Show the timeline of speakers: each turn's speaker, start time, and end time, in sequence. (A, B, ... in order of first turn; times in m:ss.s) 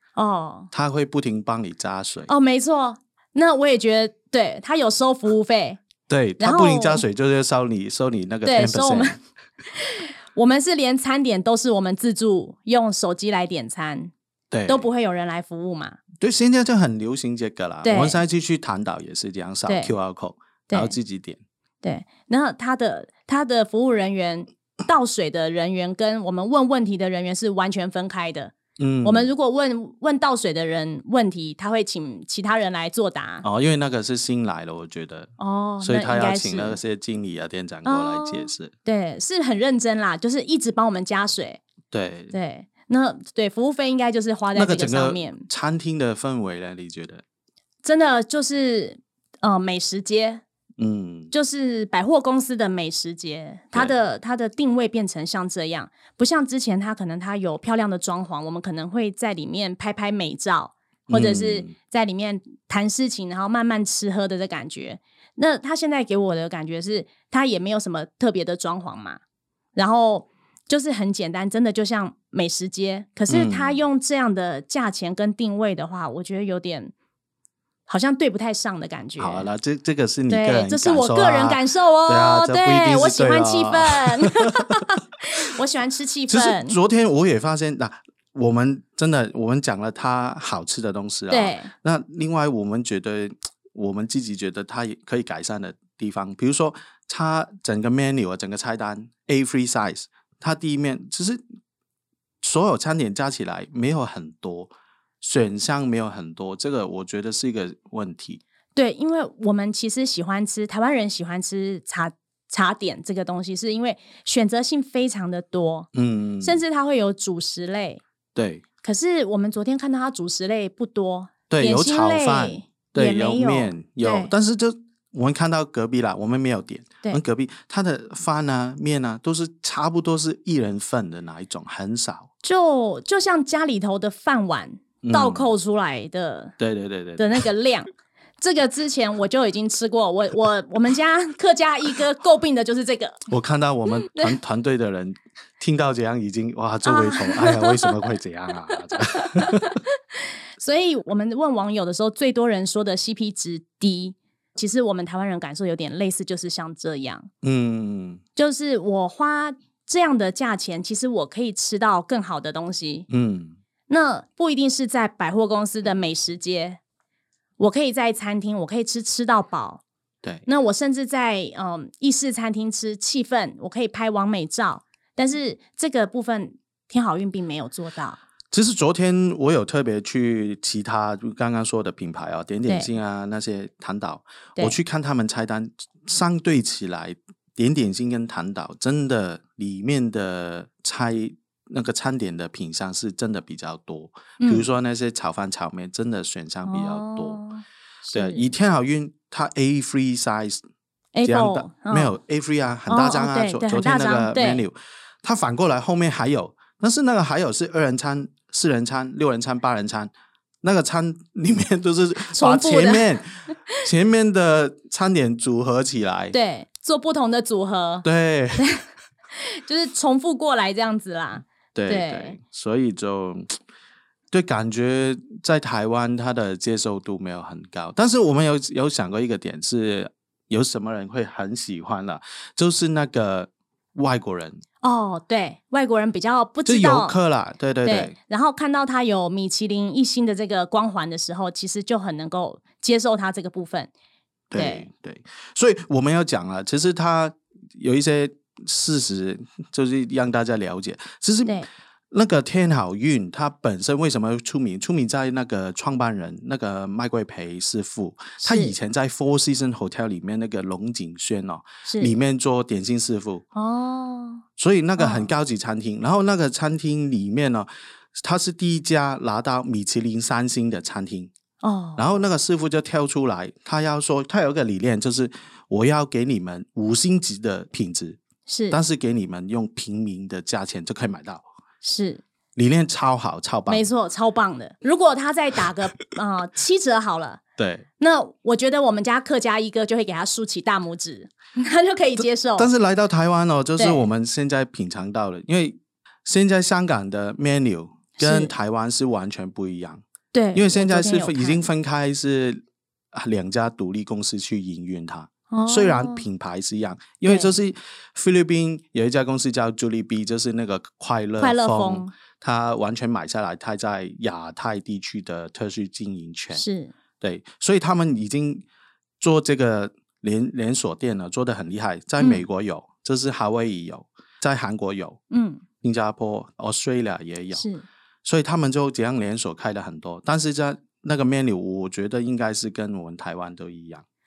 0:00.2-0:00.7 A
0:00.7-0:02.3 B
0:02.3-0:05.8 A
0:06.1-0:09.2 B
0:06.4-0:07.0 A
0:08.4-0:09.2 A
0:09.7-0:14.1 A
0:14.5-0:14.9 B
0:14.7-0:16.0 A
0:16.2-0:21.4 B
0:17.8-0:18.2 A
0:19.7-0:19.9 A
0:20.7-0:21.0 A
0:21.8-0:33.5 A
0:28.8-0:29.3 B
0:33.4-0:38.7 B
0:35.4-0:36.8 A
0:37.8-0:41.6 A
0:41.9-0:42.3 B
0:42.3-0:45.5 A
0:44.6-0:47.2 B
0:47.8-0:50.4 A
0:50.8-0:51.3 B
0:51.3-1:09.2 A
1:01.1-1:01.7 B
1:09.8-1:16.9 A
1:13.3-1:13.8 B
1:17.9-1:19.5 A
1:19.2-1:24.9 B
1:20.3-1:26.8 A
1:26.3-1:41.4 B
1:31.3-1:31.7 A
1:42.4-1:48.4 B
1:48.8-1:55.9 A
1:55.9-1:56.6 B
1:56.4-1:58.0 A
1:58.4-1:58.6 B
1:58.8-2:04.3 A
2:01.5-2:12.3 B
2:12.4-2:16.6 A
2:15.0-2:15.5 B
2:16.6-2:17.4 B
2:17.2-2:17.9 A
2:18.4-2:23.2 A
2:23.3-2:29.8 B
2:24.1-2:24.3 A
2:26.8-2:28.0 A
2:28.9-2:29.9 A
2:30.6-2:37.3 A
2:37.4-2:38.2 B
2:38.4-2:43.1 A
2:43.1-2:43.6 B
2:43.9-2:46.8 A
2:47.6-2:49.8 A
2:50.5-2:58.2 A
2:58.5-3:17.4 B
3:14.4-3:14.7 A
3:16.7-3:18.5 A
3:18.1-3:20.6 B
3:21.2-3:22.2 A
3:21.2-3:30.1 B
3:22.9-3:24.6 A
3:30.6-3:36.4 B
3:32.3-3:33.1 A
3:36.3-3:38.1 A
3:38.0-3:38.7 B
3:38.6-3:42.4 A
3:41.8-3:43.6 B
3:44.3-3:54.6 B
3:54.8-3:57.2 A
3:56.7-3:58.1 B
3:57.8-4:03.9 A
4:04.5-4:11.6 B
4:04.6-4:04.9 A
4:12.1-4:23.4 B
4:18.4-4:18.8 A
4:21.9-4:22.2 A
4:23.6-4:24.4 A
4:24.6-4:31.3 B
4:25.0-4:25.3 A
4:31.6-4:32.1 A
4:32.0-4:38.2 B
4:38.5-4:38.8 A
4:38.7-4:41.5 B
4:41.8-4:42.2 A
4:42.6-4:43.9 B
4:43.7-4:47.4 A
4:47.6-4:47.9 B
4:48.0-4:52.7 A
4:52.2-5:00.0 B
4:53.8-4:54.1 A
4:58.2-4:58.5 A
5:00.3-5:01.7 A
5:00.5-5:02.6 B
5:03.1-5:16.6 B
5:05.5-5:06.3 A
5:07.2-5:07.5 A
5:11.4-5:12.1 A
5:16.5-5:16.9 A
5:17.2-5:18.6 B
5:19.2-5:25.2 B
5:22.2-5:22.4 A
5:25.3-5:25.6 A
5:25.8-5:27.6 B
5:27.5-5:27.8 A
5:28.2-5:34.0 B